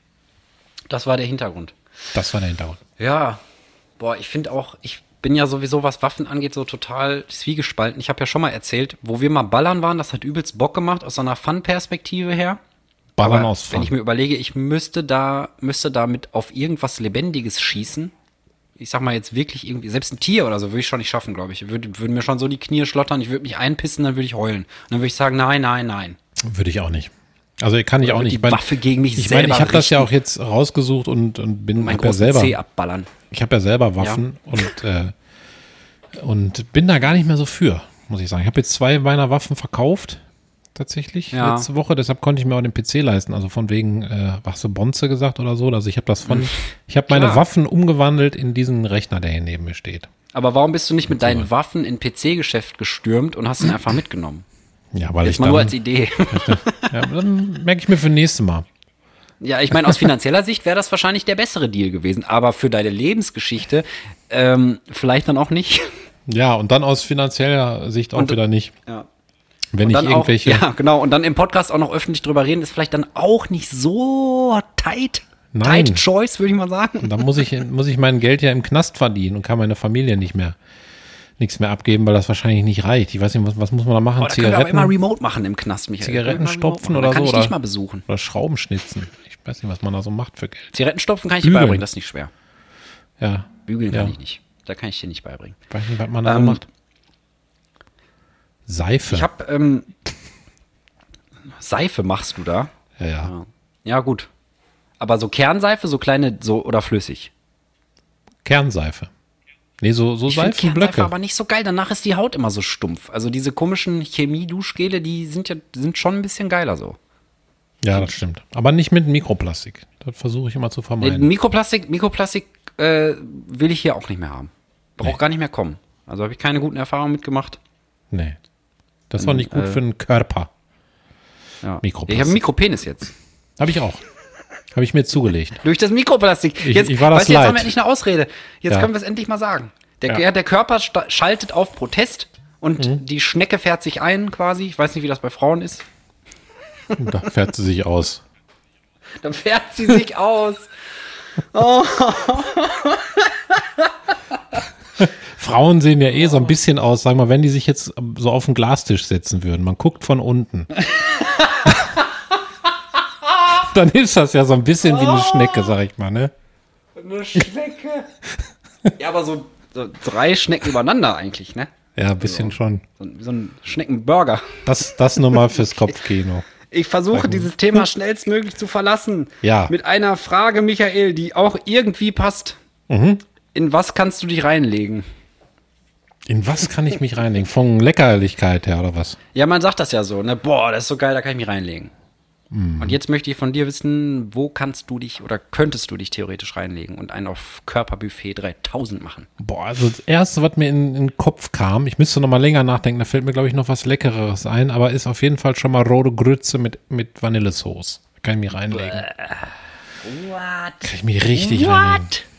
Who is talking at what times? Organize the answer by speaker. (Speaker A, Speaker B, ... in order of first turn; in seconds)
Speaker A: 0.9-1.8, 3.0-3.4, 4.0-12.6, 13.2-18.1, 18.8-26.2, 28.0-30.1, 31.8-33.1, 41.3-41.7, 46.3-46.6, 47.1-47.5, 50.3-54.5, 55.2-57.0, 59.4-65.9, 68.2-69.1, 69.8-77.5, 84.2-88.1, 90.7-92.3, 93.7-95.6, 96.2-96.6, 99.1-99.9, 101.5-102.7, 103.2-104.3, 105.0-107.3, 110.3-117.0, 121.0-127.6, 129.2-129.8, 131.6-133.1, 135.6-145.9, 149.2-150.7, 151.4-154.6, 160.8-162.1, 164.8-165.8, 167.0-168.1, 169.0-171.7, 172.2-174.7, 175.2-175.9, 176.7-182.6, 183.5-185.1, 189.3-191.9, 192.8-199.3, 208.7-212.2
Speaker B: 2.1-2.8, 13.2-13.9, 26.4-28.6, 29.2-32.6, 33.3-35.1, 36.1-40.2, 40.8-50.1, 51.1-51.5, 54.9-58.7, 59.8-60.1, 66.3-68.7, 69.7-70.7, 75.5-76.0, 77.0-80.6, 81.4-84.9, 86.0-87.5, 88.1-90.7, 91.4-91.8, 93.2-94.2, 95.7-96.6, 98.7-99.3, 103.0-103.3, 108.5-109.1, 109.8-111.1, 117.8-121.3, 128.1-128.4, 129.1-130.5, 131.8-132.4, 133.6-134.0, 134.7-135.6, 136.6-137.7, 146.9-148.2, 155.0-160.8, 163.5-166.3, 172.0-172.8, 174.7-176.5, 177.1-177.8, 179.4-179.7, 182.9-183.2, 186.3-189.2, 192.5-193.0, 199.4-209.1, 210.8-212.1